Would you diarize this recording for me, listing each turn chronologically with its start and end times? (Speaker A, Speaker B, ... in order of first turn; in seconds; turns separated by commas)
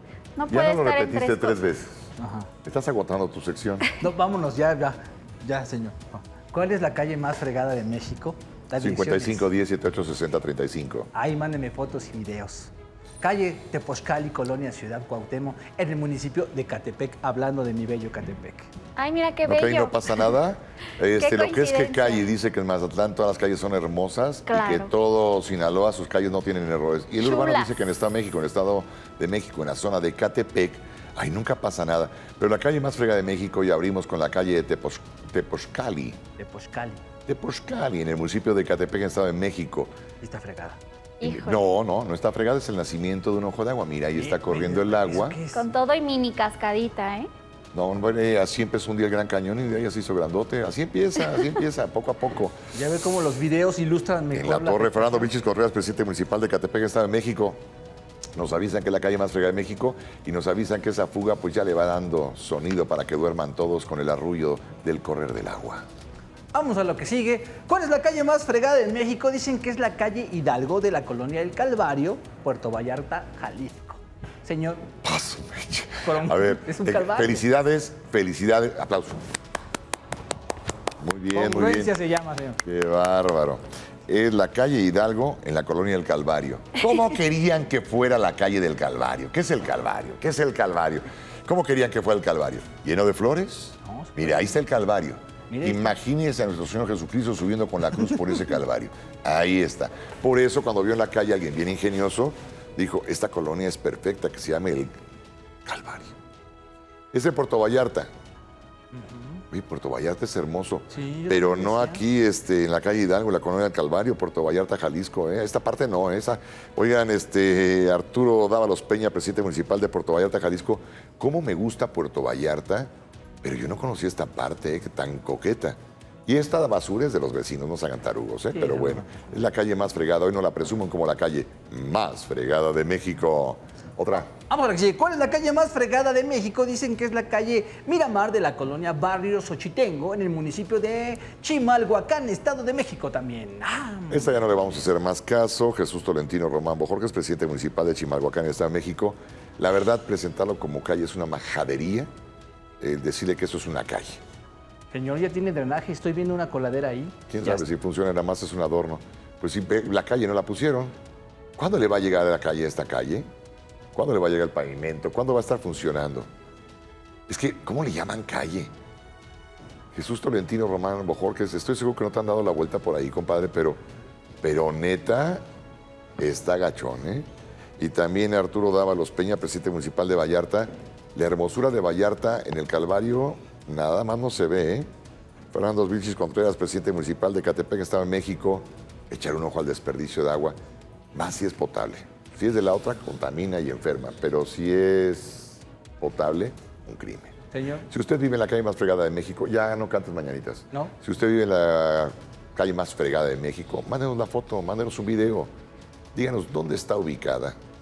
Speaker A: 0.3-1.6, Speaker B: 0.5-2.1, Speaker C: 2.2-2.5, Speaker B: 2.6-3.9, Speaker C: 4.0-9.5, Speaker B: 8.8-11.1, Speaker C: 11.1-18.7, Speaker A: 18.9-20.3, Speaker B: 19.4-36.2, Speaker A: 21.1-22.2, Speaker A: 24.5-24.9, Speaker A: 27.2-27.8, Speaker C: 36.4-37.0, Speaker B: 37.3-39.9, Speaker C: 40.2-40.8, Speaker A: 41.2-41.6, Speaker B: 41.2-45.4, Speaker C: 44.1-45.7, Speaker A: 45.5-47.3, Speaker B: 47.7-52.5, Speaker C: 52.7-55.3, Speaker B: 54.3-57.6, Speaker B: 58.4-65.8, Speaker C: 66.5-74.8, Speaker B: 75.0-79.2, Speaker C: 76.0-77.5, Speaker B: 81.0-81.9, Speaker C: 81.3-82.6, Speaker B: 82.6-104.9, Speaker C: 93.8-94.6, Speaker C: 95.5-96.0, Speaker B: 105.7-106.1, Speaker B: 107.1-108.1, Speaker C: 108.9-109.4, Speaker B: 109.5-122.9, Speaker C: 110.9-112.0, Speaker B: 123.4-134.3, Speaker C: 128.5-129.2, Speaker C: 134.5-144.7, Speaker B: 144.1-152.1, Speaker B: 152.8-154.2, Speaker C: 154.9-157.6, Speaker B: 157.3-160.9, Speaker B: 161.6-163.3, Speaker B: 163.9-166.3, Speaker B: 167.3-168.7, Speaker B: 169.9-173.8, Speaker B: 174.4-175.4, Speaker B: 176.2-177.2, Speaker B: 177.8-184.9, Speaker B: 185.5-190.6, Speaker B: 191.1-197.3, Speaker C: 197.5-197.8, Speaker B: 197.9-205.5, Speaker B: 206.1-207.6